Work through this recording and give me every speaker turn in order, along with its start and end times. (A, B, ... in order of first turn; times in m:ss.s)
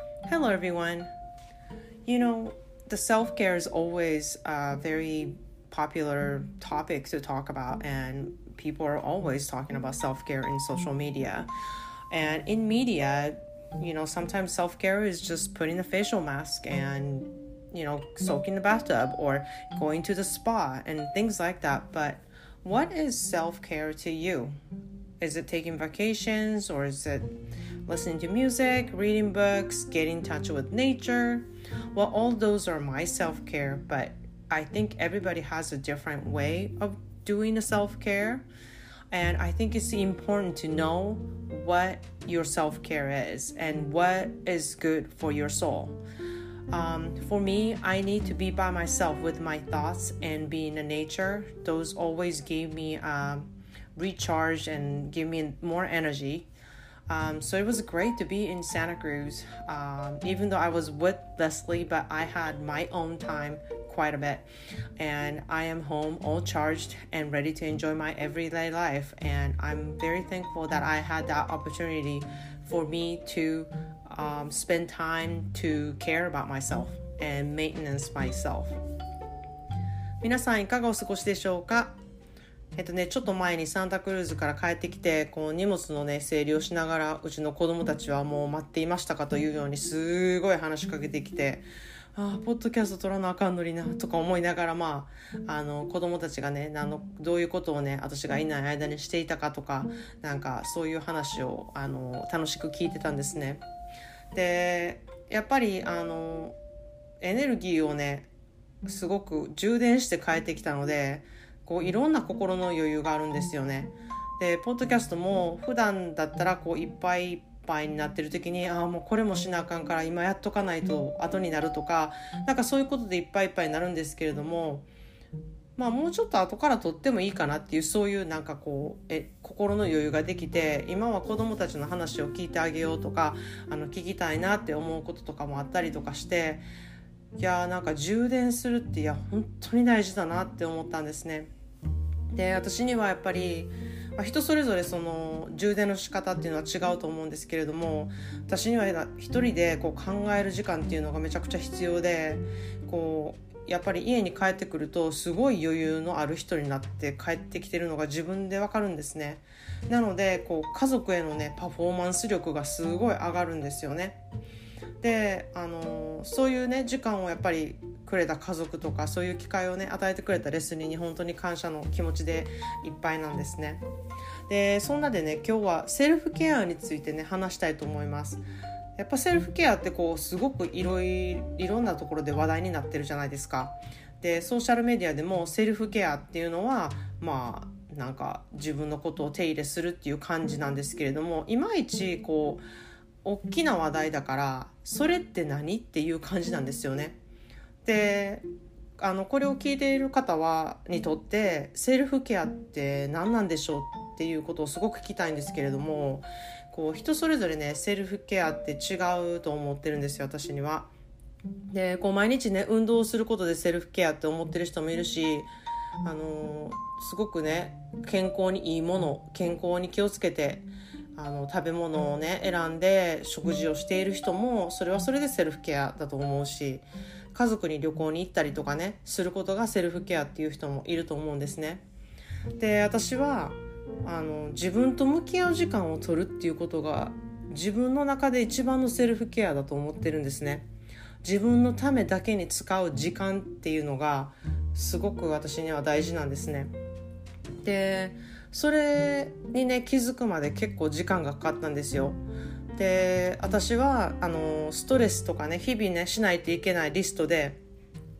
0:00.2-0:01.1 A
0:02.0-0:11.5 A
0:12.1-0:24.5 A
0:25.2-0:27.3 A
0:27.9-0:38.4 A
0:39.1-0:46.0 A
0:46.7-0:56.5 A
0:57.1-1:04.4 A
1:05.0-1:18.8 A
1:20.2-1:22.0 A
1:22.8-1:43.6 A
1:44.3-1:46.6 A
1:47.2-1:48.3 A
1:48.8-2:04.8 A
2:05.8-2:16.6 A
2:17.4-2:21.5 A
2:22.3-2:44.2 A
2:45.0-2:53.8 A
2:54.5-2:58.4 A
2:59.0-3:12.6 A
3:13.2-3:17.2 A
3:17.8-3:18.4 A
3:19.0-3:30.9 A
3:31.7-3:35.5 A
3:36.0-3:51.8 A
3:52.6-4:00.6 A
4:01.2-4:06.7 A
4:07.6-4:12.2 A
4:12.8-4:17.6 A